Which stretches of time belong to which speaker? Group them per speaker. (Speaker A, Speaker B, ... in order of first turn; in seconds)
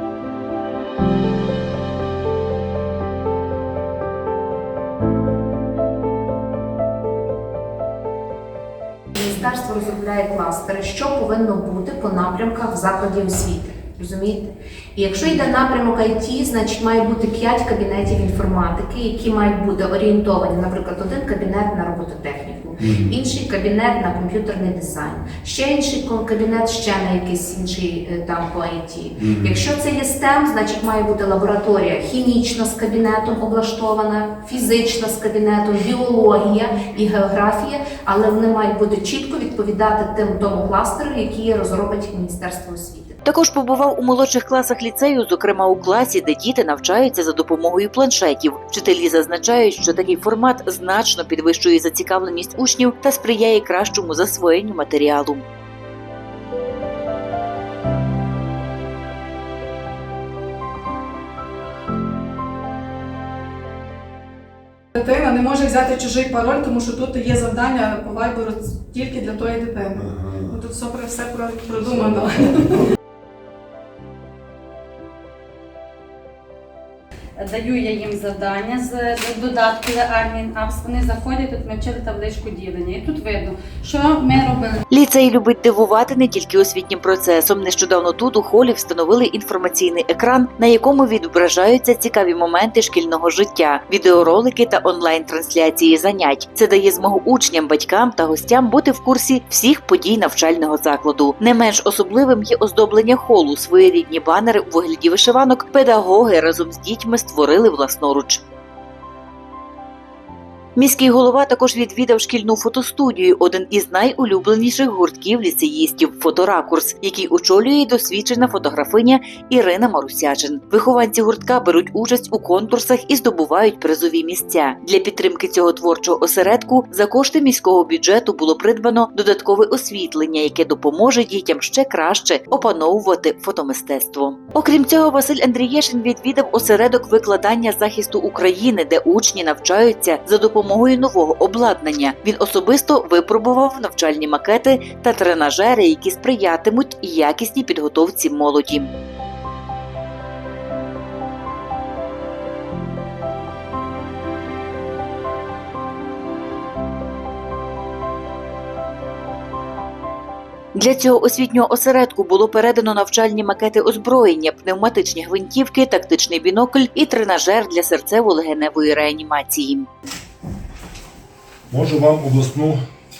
Speaker A: 9.1-43.2
Speaker B: 22.8-23.1, 29.2-29.6, 70.0-70.5, 72.0-72.5, 171.7-172.8
Speaker C: 43.2-55.4, 84.9-108.4, 110.8-148.9, 160.7-169.9
Speaker D: 64.9-72.8
Speaker E: 77.4-84.8